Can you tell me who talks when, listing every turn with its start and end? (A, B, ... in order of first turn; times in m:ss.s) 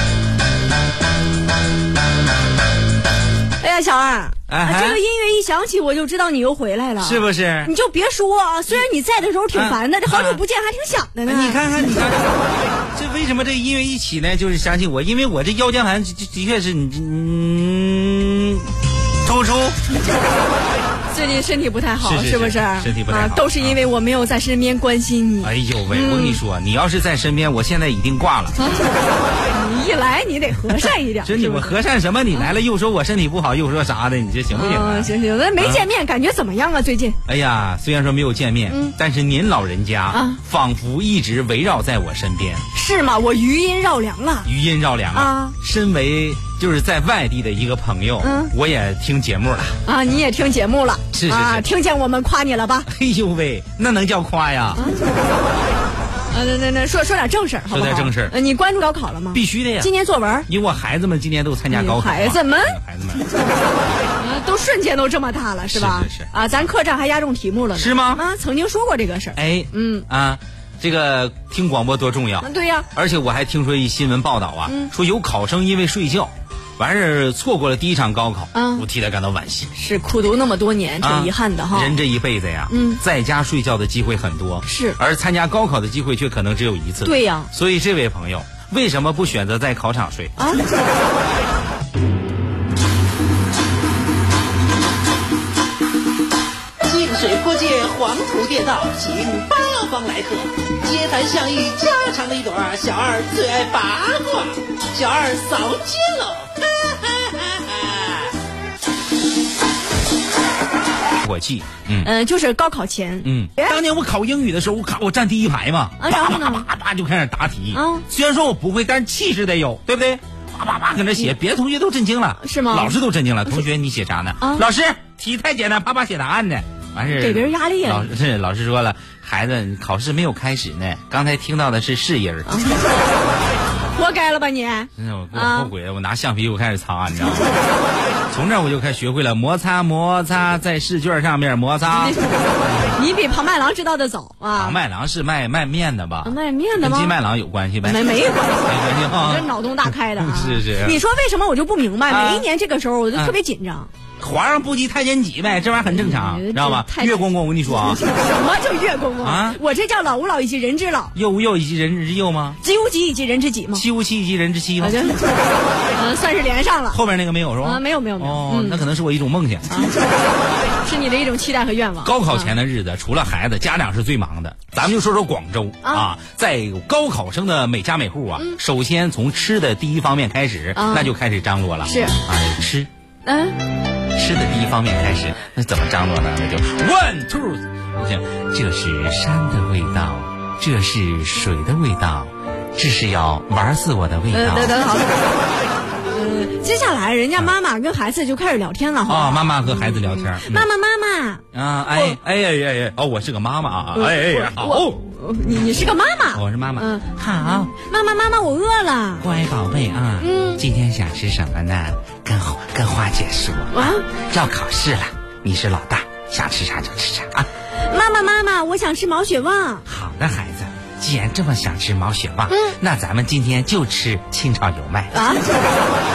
0:03.6-0:11.6 A
0:04.5-0:05.0 B
0:07.0-0:07.7 B
0:09.5-0:10.4 B
0:11.3-0:19.8 B
0:21.1-0:26.4 A
0:22.0-0:23.8 B
0:25.4-0:28.7 B
0:28.6-0:28.9 A
0:29.4-0:31.8 A
0:30.7-0:35.9 B
0:34.5-0:37.2 A
0:37.3-0:42.6 B
0:38.7-0:39.0 A
0:40.1-0:40.4 A
0:42.7-0:44.5 A
0:44.4-0:49.8 B
0:45.1-0:45.6 A
0:48.2-0:48.5 A
0:49.9-0:52.9 A
0:51.1-0:51.7 B
0:52.9-0:54.8 B
0:54.8-0:55.2 A
0:56.3-1:00.5 A
0:57.7-0:58.4 B
0:59.3-0:59.9 B
1:00.5-1:03.3 B
1:01.7-1:02.8 A
1:04.1-1:10.1 A
1:05.7-1:06.3 B
1:07.8-1:08.2 B
1:09.4-1:19.7 B
1:12.4-1:12.9 A
1:14.7-1:14.9 A
1:18.5-1:18.8 A
1:19.8-1:22.0 A
1:21.0-1:30.4 B
1:22.7-1:23.0 A
1:24.6-1:25.0 A
1:27.0-1:27.5 A
1:30.4-1:30.7 A
1:36.9-1:44.4 B
1:36.9-1:46.4 C
1:45.0-1:45.6 B
1:51.2-1:52.1 B
1:52.0-1:53.8 A
1:53.2-2:12.5 B
1:56.0-1:56.7 A
1:57.7-1:58.0 A
2:02.4-2:03.0 A
2:04.4-2:04.7 A
2:07.2-2:08.1 A
2:12.5-2:12.8 A
2:13.9-2:15.7 A
2:15.0-2:17.6 B
2:18.3-2:22.2 B
2:21.9-2:24.8 A
2:24.5-2:31.0 B
2:26.2-2:27.2 A
2:27.8-2:33.9 A
2:32.1-2:32.5 B
2:33.1-2:33.4 B
2:34.2-2:38.0 B
2:35.8-2:41.2 A
2:39.2-2:39.6 B
2:41.1-2:42.6 B
2:42.6-2:43.8 A
2:43.8-2:45.0 B
2:44.8-2:45.3 A
2:45.9-2:47.0 A
2:46.9-2:49.7 B
2:47.6-2:48.8 A
2:49.7-2:50.0 A
2:50.8-2:52.5 A
2:52.0-3:02.9 B
2:55.8-2:56.1 A
3:00.8-3:01.1 A
3:01.8-3:02.2 A
3:03.3-3:03.6 A
3:04.1-3:14.8 B
3:14.3-3:15.3 A
3:16.0-3:22.2 A
3:19.1-3:20.7 B
3:21.5-3:25.0 B
3:24.0-3:27.1 A
3:26.3-3:27.8 B
3:27.8-3:29.2 A
3:29.2-3:37.5 B
3:30.2-3:30.6 A
3:33.7-3:34.1 A
3:37.8-3:39.9 A
3:39.9-3:45.2 B
3:42.5-3:42.8 A
3:45.1-3:45.5 A